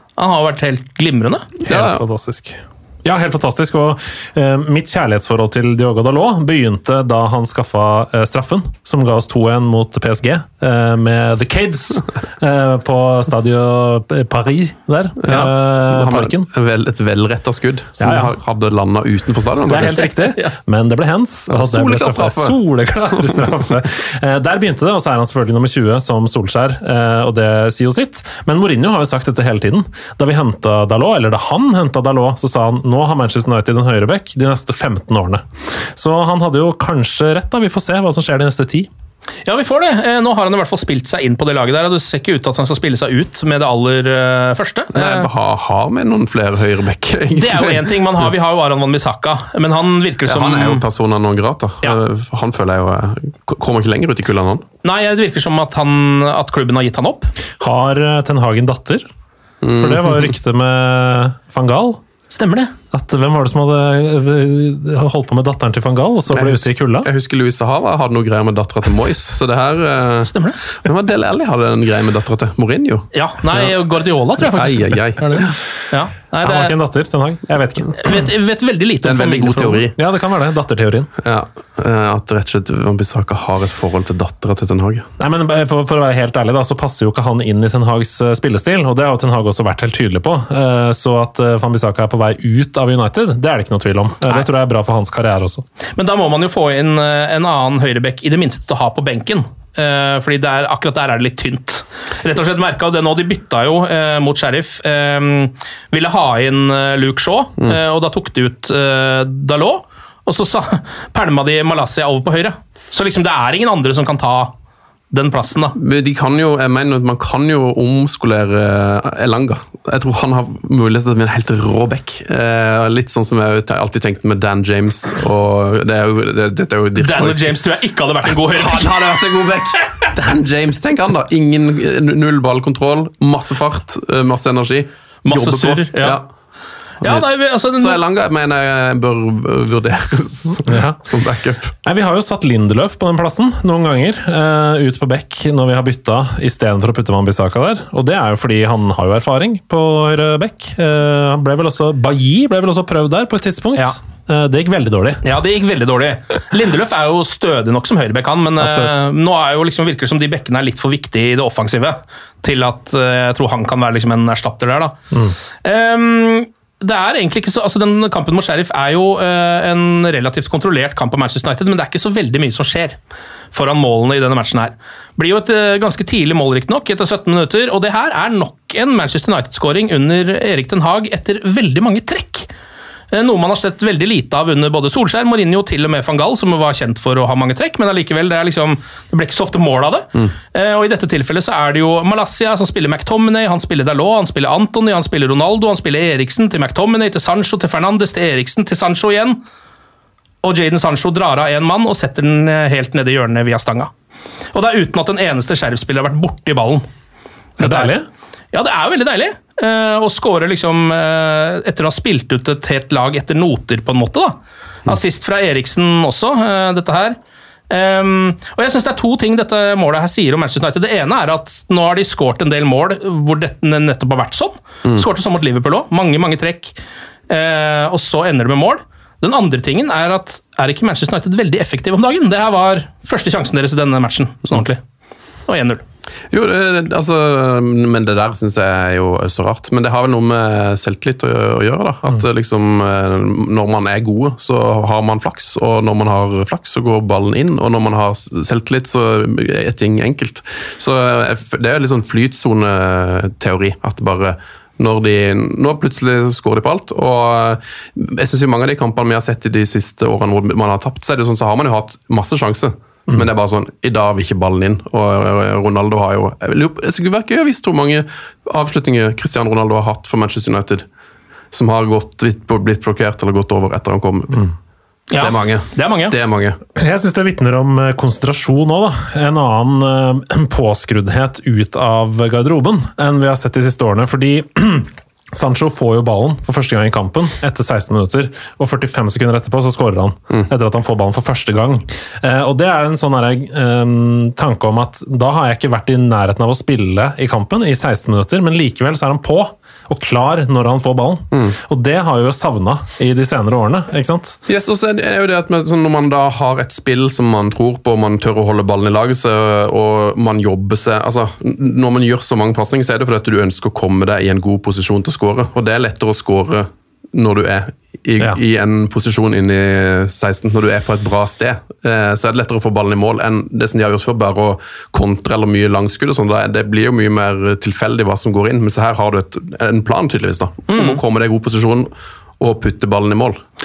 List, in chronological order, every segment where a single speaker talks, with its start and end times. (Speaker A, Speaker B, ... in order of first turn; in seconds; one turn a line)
Speaker A: 0.2-1.5
Speaker B: 1.6-2.0
Speaker C: 1.7-16.4
Speaker B: 15.2-20.0
Speaker C: 18.0-18.3
Speaker C: 19.6-38.9
Speaker A: 20.0-20.5
Speaker B: 21.5-22.6
Speaker B: 23.1-23.7
Speaker A: 39.4-45.3
Speaker B: 44.9-48.0
Speaker A: 47.3-50.8
Speaker B: 50.2-54.6
Speaker A: 54.8-57.3
Speaker C: 57.6-59.0
Speaker B: 59.6-60.3
Speaker C: 59.7-62.0
Speaker A: 62.3-62.7
Speaker C: 62.9-67.1
Speaker B: 66.3-73.7
Speaker A: 70.2-70.6
Speaker A: 73.1-76.8
Speaker B: 74.4-75.5
Speaker C: 76.4-77.9
Speaker A: 78.0-79.8
Speaker B: 79.0-80.0
Speaker C: 80.0-81.1
Speaker B: 81.2-85.1
Speaker C: 85.2-95.6
Speaker A: 96.0-114.5
Speaker A: 115.1-115.7
Speaker B: 115.8-127.5
Speaker A: 127.0-129.5
Speaker B: 128.3-136.2
Speaker A: 135.2-136.2
Speaker A: 137.0-138.0
Speaker B: 137.0-141.7
Speaker C: 140.7-141.0
Speaker C: 141.8-155.2
Speaker A: 155.2-165.0
Speaker C: 158.6-159.0
Speaker A: 165.6-173.0
Speaker A: 173.5-182.5
Speaker A: 183.1-199.4
Speaker A: 200.4-203.9
Speaker A: 204.5-206.9
Speaker C: 207.6-208.0
Speaker A: 207.6-207.9
Speaker A: 208.5-217.2
Speaker A: 217.7-226.8
Speaker A: 227.3-234.8
Speaker A: 235.5-235.8
Speaker B: 236.3-270.8
Speaker B: 271.5-274.5
Speaker A: 275.1-276.1
Speaker B: 275.2-276.6
Speaker C: 276.8-304.4
Speaker B: 304.5-333.4
Speaker A: 330.7-331.0